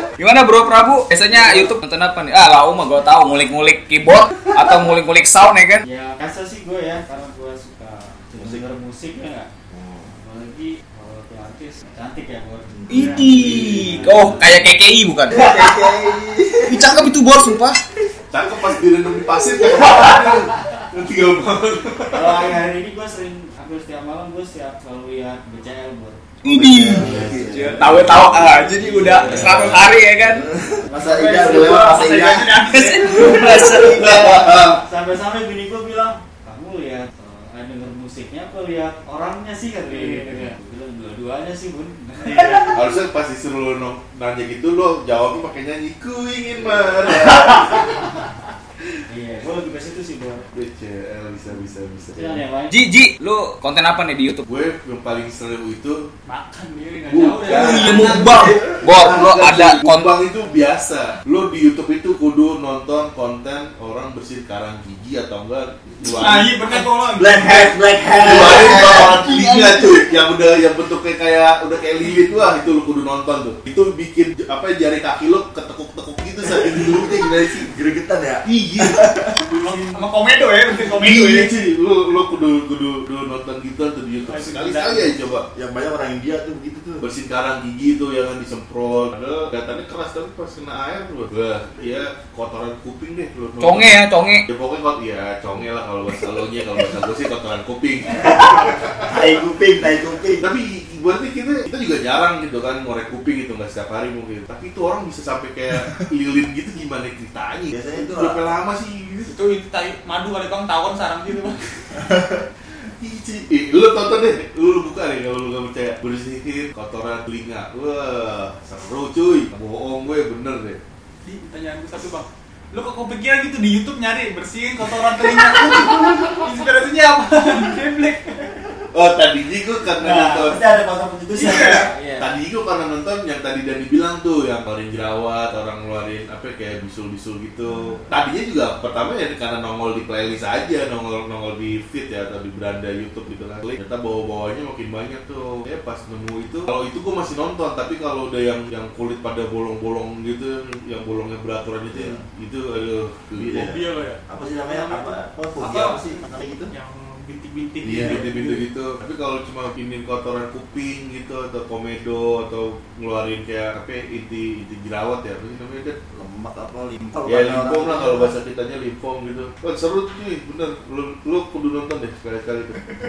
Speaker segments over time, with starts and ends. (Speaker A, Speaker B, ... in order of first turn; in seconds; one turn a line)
Speaker A: 0.2-5.8
Speaker B: 5.8-9.5
Speaker C: 9.7-10.1
Speaker B: 10.1-14.6
Speaker C: 12.7-14.1
Speaker A: 12.9-15.9
Speaker D: 12.9-13.3
Speaker C: 15.3-17.0
Speaker A: 16.6-17.8
Speaker E: 18.3-22.5
Speaker B: 22.1-26.2
Speaker A: 26.4-30.5
Speaker C: 26.4-34.4
Speaker B: 26.9-29.9
Speaker E: 27.9-28.2
Speaker E: 29.2-29.7
Speaker B: 30.9-31.9
Speaker D: 31.3-33.8
Speaker A: 31.6-34.5
Speaker E: 33.6-34.8
Speaker B: 34.7-42.8
Speaker D: 39.9-40.5
Speaker E: 42.6-48.0
Speaker B: 47.6-47.9
Speaker B: 49.1-50.5
Speaker E: 50.5-52.4
Speaker B: 52.1-52.8
Speaker A: 52.7-54.5
Speaker E: 54.5-56.1
Speaker D: 56.2-58.6
Speaker E: 57.1-66.6
Speaker A: 57.5-60.1
Speaker C: 57.5-58.9
Speaker D: 66.0-67.8
Speaker C: 67.2-70.1
Speaker E: 68.2-77.7
Speaker C: 76.4-79.5
Speaker E: 78.4-79.1
Speaker D: 79.5-81.5
Speaker E: 80.8-85.5
Speaker D: 84.3-85.1
Speaker C: 85.5-87.0
Speaker E: 87.0-99.1
Speaker A: 93.6-94.5
Speaker C: 98.2-100.5
Speaker E: 100.4-109.3
Speaker C: 107.7-108.6
Speaker D: 109.3-111.6
Speaker C: 111.9-112.5
Speaker E: 113.0-120.8
Speaker D: 121.2-128.7
Speaker E: 128.9-130.6
Speaker B: 130.0-132.3
Speaker D: 131.4-131.9
Speaker E: 131.4-153.8
Speaker C: 151.9-152.2
Speaker C: 153.4-153.6
Speaker D: 153.5-156.1
Speaker C: 154.3-156.7
Speaker D: 156.7-158.6
Speaker E: 157.8-166.0
Speaker C: 166.1-168.3
Speaker E: 167.2-172.8